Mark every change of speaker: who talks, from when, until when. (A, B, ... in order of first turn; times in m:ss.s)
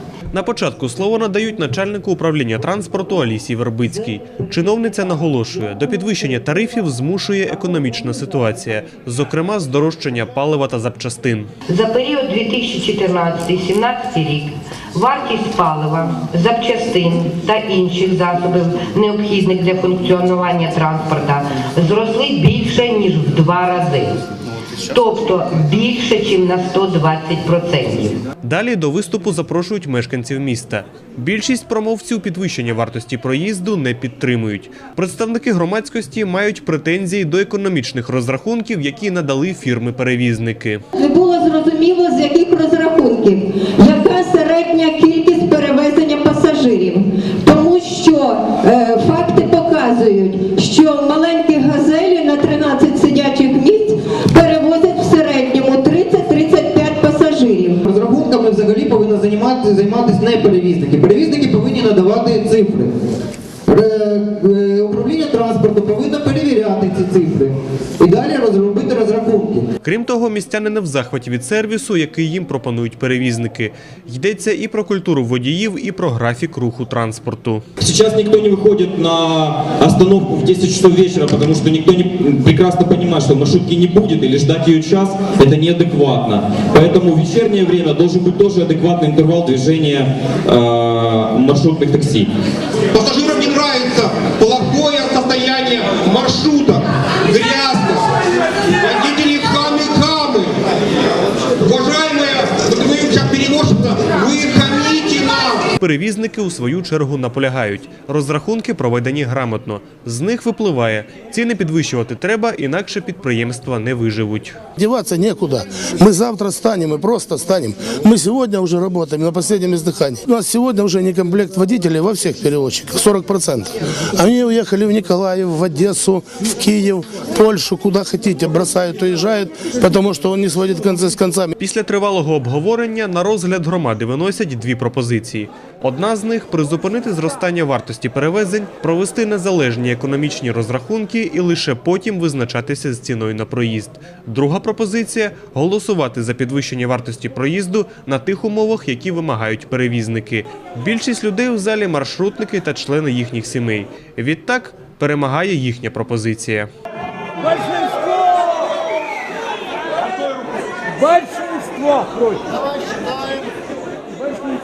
0:00.3-0:11.5 A
0:11.7-0:24.2 B
0:24.8-0:28.2 B
0:28.4-0:40.8 A
0:40.9-0:57.8 C
0:57.8-1:02.9 D
1:03.6-1:09.6 D
1:09.8-1:17.6 A
1:17.8-1:32.3 E
1:32.9-1:38.2 F
1:38.8-1:40.6 F
1:41.6-1:45.7 F
1:45.8-1:54.6 A
1:54.8-2:11.5 G
2:11.6-2:36.7 A